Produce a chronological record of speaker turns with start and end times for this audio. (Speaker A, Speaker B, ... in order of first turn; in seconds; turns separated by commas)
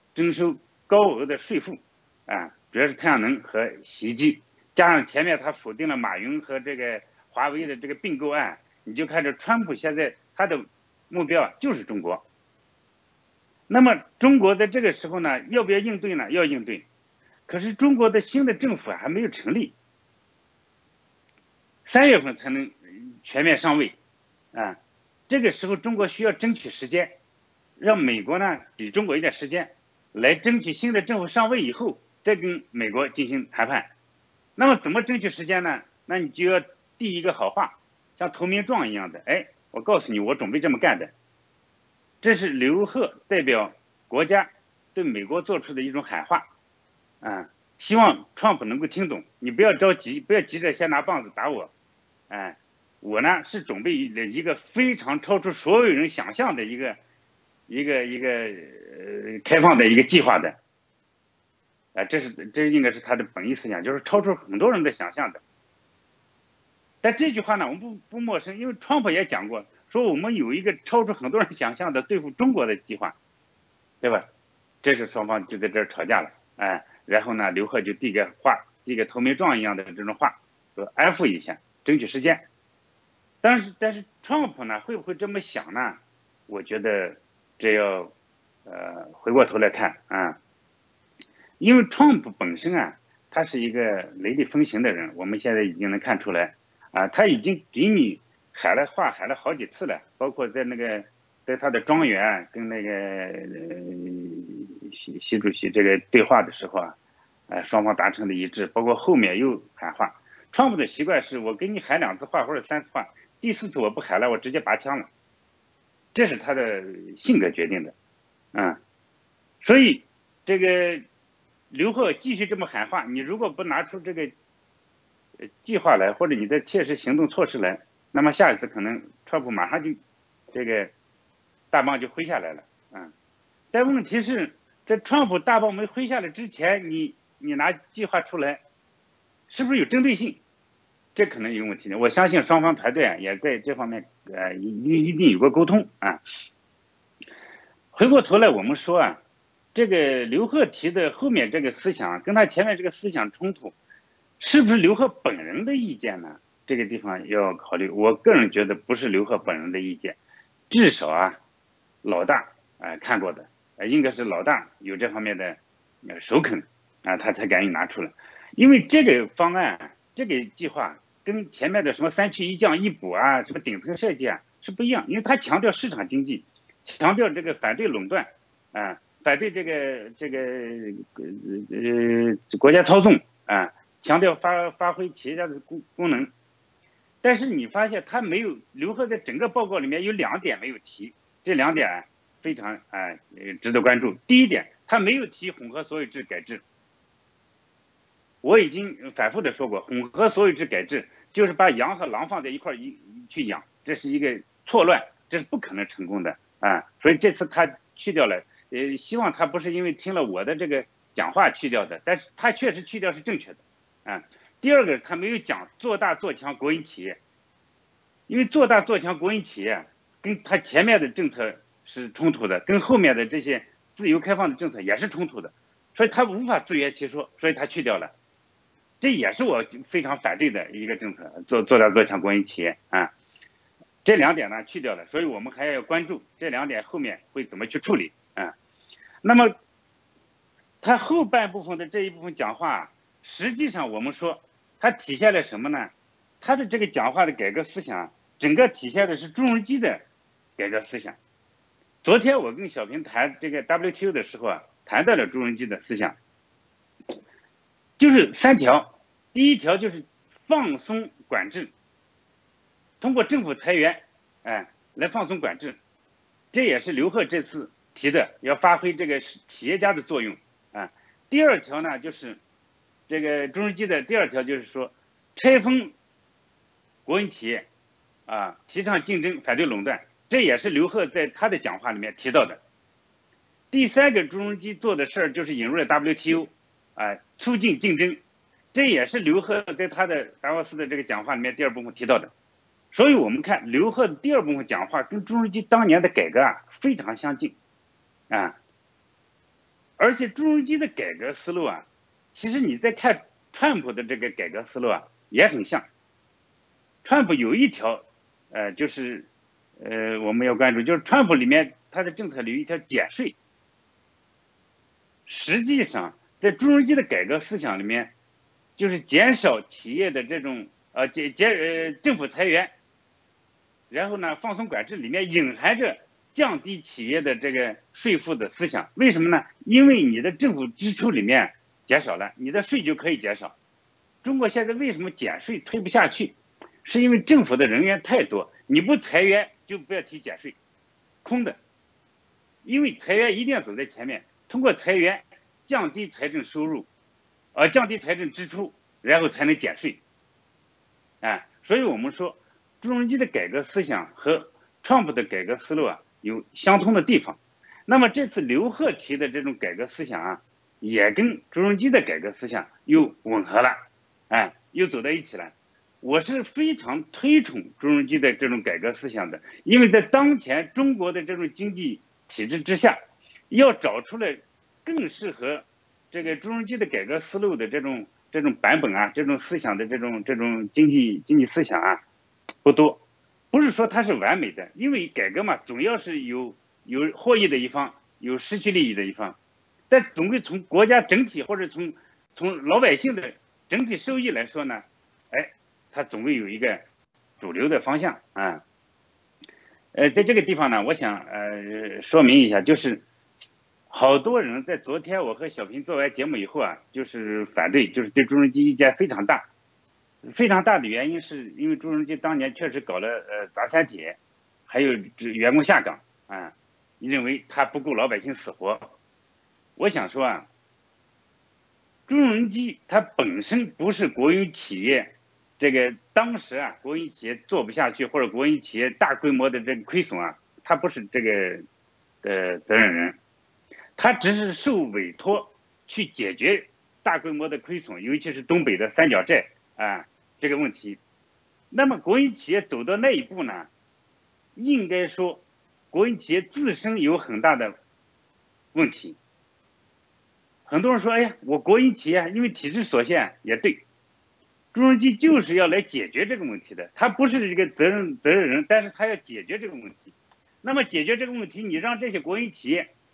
Speaker A: 0.1-12.3, Speaker A: 13.7-16.9, Speaker A: 17.5-19.8, Speaker A: 21.9-24.0, Speaker A: 24.5-27.2, Speaker A: 27.8-33.9, Speaker A: 34.6-41.1, Speaker A: 42.2-46.5, Speaker A: 47.2-51.7, Speaker A: 52.3-57.0, Speaker A: 57.7-60.6, Speaker A: 62.0-65.4, Speaker A: 67.0-73.2, Speaker A: 74.8-82.5, Speaker A: 83.4-88.1, Speaker A: 88.7-90.4, Speaker A: 91.6-107.0, Speaker A: 107.5-115.1, Speaker A: 116.1-117.9, Speaker A: 118.5-118.8, Speaker A: 119.6-121.1, Speaker A: 121.7-124.3, Speaker A: 125.6-130.0, Speaker A: 130.5-130.9, Speaker A: 131.7-133.1, Speaker A: 133.7-138.6, Speaker A: 139.5-140.4, Speaker A: 141.2-146.2, Speaker A: 147.9-149.2, Speaker A: 149.8-153.7, Speaker A: 154.4-160.2, Speaker A: 160.7-161.4, Speaker A: 162.0-186.3, Speaker A: 187.2-196.6, Speaker A: 198.4-217.2, Speaker A: 218.3-228.1, Speaker A: 229.0-233.1, Speaker A: 234.0-238.5, Speaker A: 239.2-239.6, Speaker A: 240.8-250.1, Speaker A: 250.6-251.2, Speaker A: 252.0-256.2, Speaker A: 258.0-261.7, Speaker A: 263.0-265.8, Speaker A: 266.5-272.4, Speaker A: 273.1-275.9, Speaker A: 277.1-277.7, Speaker A: 278.3-282.6, Speaker A: 283.7-288.2, Speaker A: 288.7-292.3, Speaker A: 292.9-297.6, Speaker A: 298.3-298.6, Speaker A: 300.0-305.9, Speaker A: 307.0-313.4, Speaker A: 315.3-318.1, Speaker A: 318.8-322.8, Speaker A: 323.9-333.6, Speaker A: 334.2-340.6, Speaker A: 341.2-341.6, Speaker A: 342.6-346.9, Speaker A: 347.6-350.0, Speaker A: 351.2-373.0, Speaker A: 373.5-382.0, Speaker A: 382.6-389.4, Speaker A: 389.9-396.9, Speaker A: 397.4-398.6, Speaker A: 399.9-403.1, Speaker A: 403.9-409.5, Speaker A: 410.3-419.0, Speaker A: 419.8-420.5, Speaker A: 422.1-431.6, Speaker A: 432.2-433.2, Speaker A: 434.0-441.0, Speaker A: 441.7-443.7, Speaker A: 444.6-447.8, Speaker A: 448.7-449.2, Speaker A: 450.7-453.9, Speaker A: 454.7-462.9